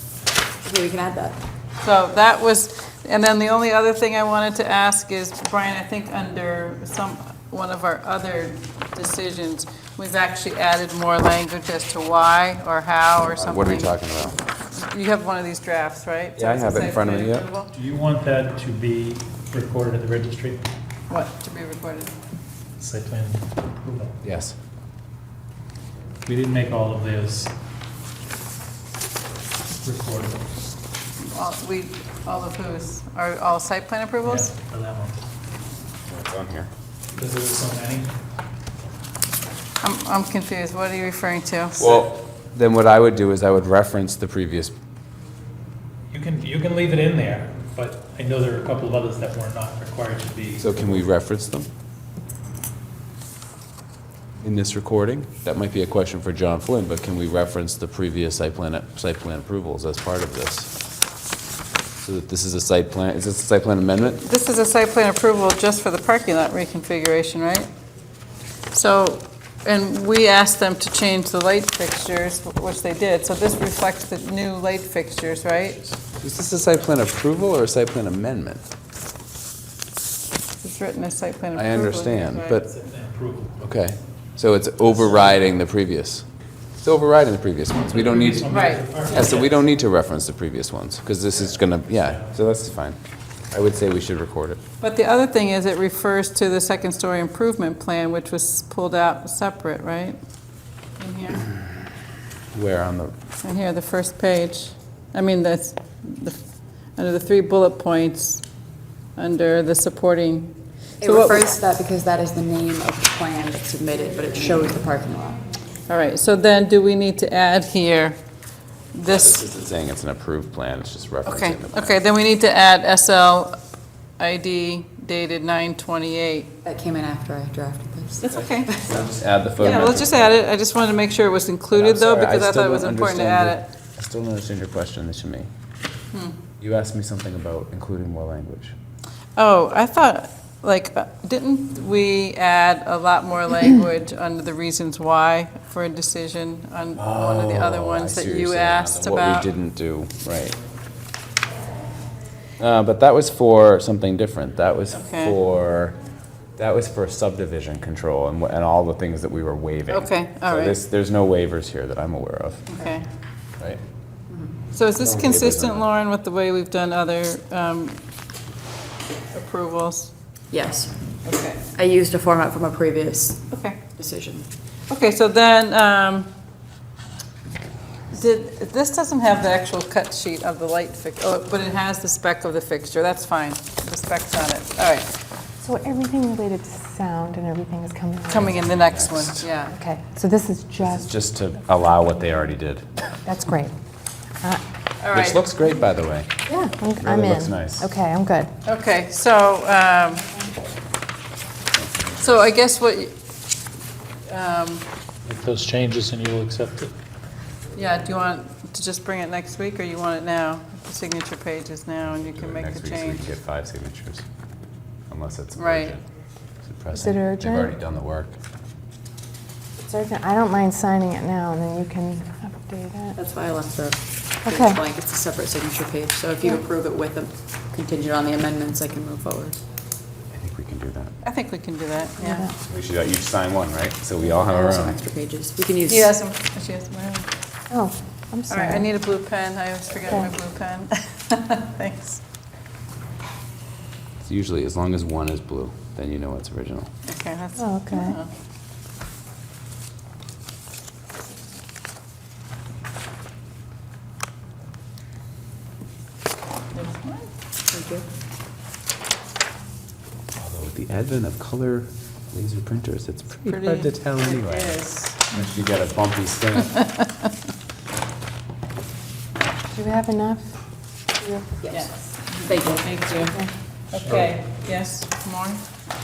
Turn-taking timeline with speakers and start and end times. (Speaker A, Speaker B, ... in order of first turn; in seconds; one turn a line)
Speaker A: 0.6-1.4
Speaker B: 1.8-13.9
Speaker C: 13.3-14.4
Speaker B: 14.7-17.7
Speaker C: 16.4-17.5
Speaker D: 17.7-20.6
Speaker B: 21.1-22.1
Speaker D: 22.8-24.2
Speaker C: 24.2-24.6
Speaker D: 26.2-27.5
Speaker D: 29.8-30.4
Speaker B: 31.3-34.5
Speaker D: 34.2-35.2
Speaker C: 36.1-36.7
Speaker D: 37.1-38.1
Speaker B: 39.8-41.9
Speaker C: 41.8-44.7
Speaker D: 46.1-50.9
Speaker C: 50.6-51.7
Speaker C: 54.4-60.7
Speaker C: 62.0-64.2
Speaker B: 64.2-67.7
Speaker B: 68.7-75.8
Speaker C: 76.2-78.6
Speaker B: 80.6-82.6
Speaker C: 81.5-82.7
Speaker D: 82.6-83.6
Speaker C: 83.6-86.2
Speaker C: 86.8-93.0
Speaker D: 87.8-89.6
Speaker B: 88.4-89.0
Speaker C: 93.5-94.6
Speaker B: 94.8-100.2
Speaker B: 101.0-101.4
Speaker C: 102.5-103.1
Speaker B: 103.4-106.4
Speaker B: 107.0-108.4
Speaker B: 109.2-111.6
Speaker A: 111.0-115.4
Speaker B: 115.9-118.2
Speaker B: 118.9-119.4
Speaker C: 119.0-122.0
Speaker B: 121.2-123.6
Speaker B: 124.2-126.5
Speaker A: 126.6-129.1
Speaker B: 128.2-128.9
Speaker C: 128.8-130.4
Speaker B: 129.6-133.6
Speaker C: 131.7-135.5
Speaker B: 136.1-136.4
Speaker C: 136.6-138.8
Speaker B: 139.3-149.5
Speaker C: 146.9-150.6
Speaker C: 152.6-155.9
Speaker B: 154.9-155.4
Speaker C: 156.6-162.6
Speaker B: 159.9-160.8
Speaker B: 162.7-163.0
Speaker B: 164.7-168.0
Speaker C: 164.9-165.9
Speaker B: 169.3-170.1
Speaker A: 170.5-170.9
Speaker B: 171.2-171.6
Speaker A: 171.7-174.5
Speaker B: 173.5-173.8
Speaker B: 174.9-176.3
Speaker B: 178.1-185.1
Speaker E: 185.6-188.6
Speaker B: 188.3-189.7
Speaker C: 188.4-189.5
Speaker E: 189.7-191.2
Speaker C: 190.8-192.8
Speaker E: 193.2-193.7
Speaker B: 195.0-195.4
Speaker C: 195.1-196.3
Speaker E: 196.5-198.5
Speaker C: 197.0-197.9
Speaker B: 198.6-200.3
Speaker C: 201.7-202.4
Speaker B: 202.2-203.1
Speaker B: 204.3-204.8
Speaker D: 205.3-206.9
Speaker B: 207.7-213.3
Speaker C: 212.1-214.2
Speaker C: 215.1-216.0
Speaker B: 215.6-215.9
Speaker C: 216.6-218.3
Speaker E: 216.9-217.7
Speaker E: 219.8-223.2
Speaker A: 223.2-229.6
Speaker E: 224.4-224.8
Speaker C: 230.3-231.1
Speaker B: 231.2-232.4
Speaker E: 232.2-232.5
Speaker C: 232.6-235.0
Speaker A: 234.3-236.1
Speaker B: 235.8-237.3
Speaker E: 237.7-238.9
Speaker B: 238.5-242.2
Speaker C: 244.2-246.9
Speaker B: 247.1-248.3
Speaker E: 247.6-248.2
Speaker B: 256.7-257.3
Speaker A: 257.7-258.1
Speaker C: 260.4-266.8
Speaker B: 263.4-265.2
Speaker B: 266.8-267.0
Speaker E: 269.7-270.6
Speaker E: 271.1-271.9
Speaker A: 271.6-271.9
Speaker B: 271.7-273.4
Speaker A: 272.4-273.3
Speaker B: 273.9-275.6
Speaker D: 274.0-274.4